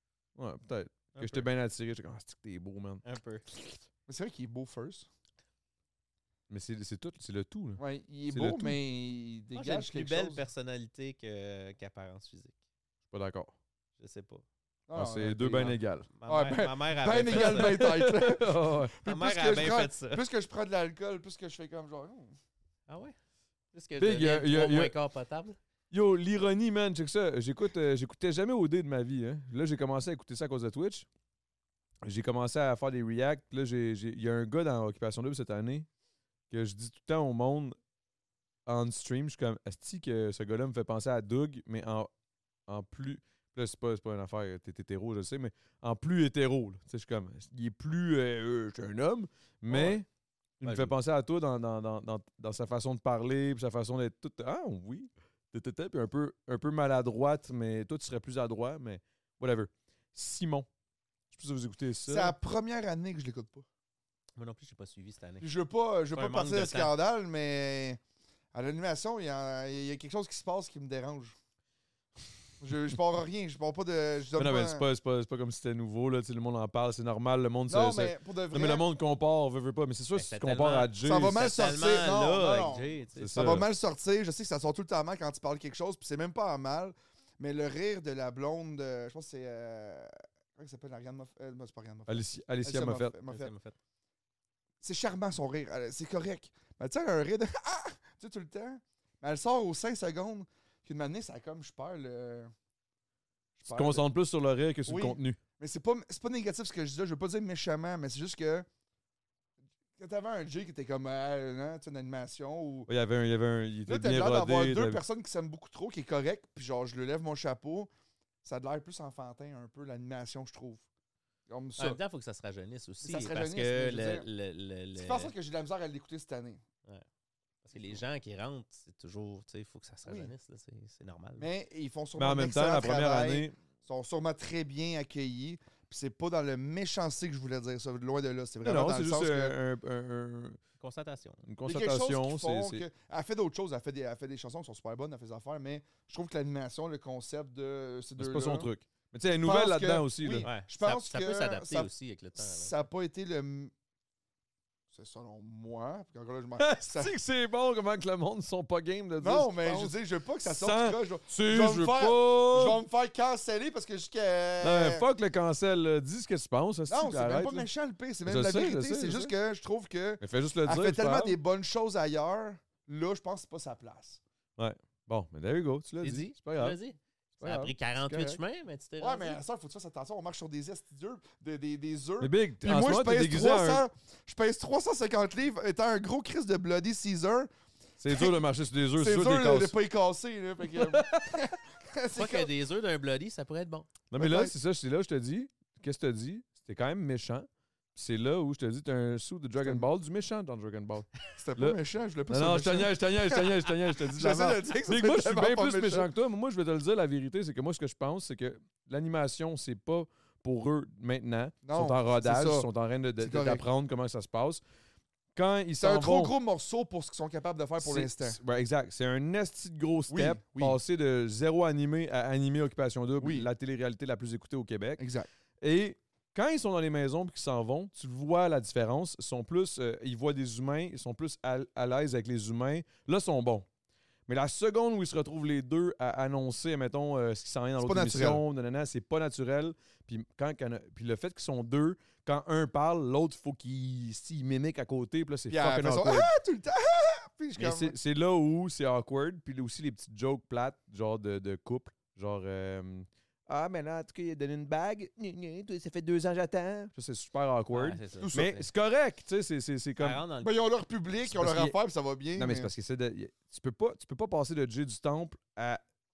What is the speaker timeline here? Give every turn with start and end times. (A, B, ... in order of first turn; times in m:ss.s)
0:00.4-0:03.0 A
0:01.1-0:01.5 B
0:03.0-0:03.4 B
0:04.1-0:05.1 C
0:06.5-0:08.8 A
0:07.8-0:10.4 C
0:09.6-0:12.6 B
0:13.1-0:13.5 A
0:14.0-0:14.4 B
0:14.9-0:22.4 C
0:14.9-0:16.1 A
0:15.5-0:17.9 B
0:17.3-0:18.9 A
0:19.0-0:20.2 B
0:22.9-0:23.2 B
0:23.7-0:25.6 B
0:24.0-0:24.9 A
0:25.9-0:31.1 A
0:32.0-0:35.9 A
0:36.5-0:37.8 A
0:38.7-0:42.1 A
0:42.7-0:50.1 A
0:49.7-0:50.0 C
0:50.6-1:00.7 A
0:50.6-0:50.9 B
1:01.3-1:02.4 A
1:02.1-1:03.6 C
1:04.4-1:05.5 B
1:05.4-1:08.0 C
1:06.1-1:06.9 B
1:08.5-1:11.4 C
1:12.6-1:14.9 C
1:14.4-1:21.4 A
1:17.7-1:18.9 C
1:20.2-1:23.6 B
1:21.0-1:33.5 C
1:23.2-1:23.7 A
1:32.1-1:33.2 A
1:33.3-1:33.8 B
1:34.8-1:42.5 C
1:43.6-1:44.1 C
1:43.7-1:45.4 A
1:44.9-1:48.7 C
1:50.0-1:52.9 C
1:52.9-1:55.0 A
1:53.9-1:57.9 C
1:58.4-2:00.8 C
2:01.5-2:02.0 C
2:01.8-2:05.3 B
2:03.0-2:04.3 C
2:05.0-2:06.6 C
2:07.6-2:11.5 B
2:10.1-2:10.3 C
2:11.4-2:19.6 C
2:12.2-2:13.6 A
2:18.6-2:20.6 A
2:20.8-2:21.4 B
2:21.5-2:22.8 A
2:21.7-2:28.7 C
2:28.2-2:30.5 A
2:29.4-2:33.7 C
2:30.4-2:32.8 B
2:34.9-2:37.2 C
2:36.6-2:42.8 A
2:39.2-2:45.1 C
2:44.6-2:47.7 A
2:46.9-2:54.2 C
2:48.2-2:49.3 A
2:50.2-2:51.4 A
2:54.6-2:56.8 A
2:56.0-2:59.4 B
2:57.4-2:58.4 A
2:59.0-3:07.5 C
3:02.2-3:03.8 A
3:08.0-3:09.8 A
3:08.1-3:08.4 C
3:09.0-3:12.5 C
3:10.8-3:11.4 A
3:12.1-3:13.9 B
3:14.1-3:34.6 A
3:14.2-3:14.5 C
3:21.3-3:26.1 C
3:31.6-3:33.6 C
3:35.4-3:36.3 A
3:35.8-3:38.4 C
3:37.8-3:45.0 A
3:40.1-3:40.8 C
3:43.2-3:43.5 C
3:45.0-3:45.3 C
3:45.6-3:53.7 A
3:54.3-4:06.3 A
3:57.8-3:58.4 C
4:05.5-4:08.0 C
4:07.6-4:20.2 A
4:17.7-4:18.6 B
4:18.2-4:18.5 C
4:20.0-4:20.5 B
4:20.4-4:22.7 C
4:21.2-4:21.8 A
4:22.4-4:25.8 A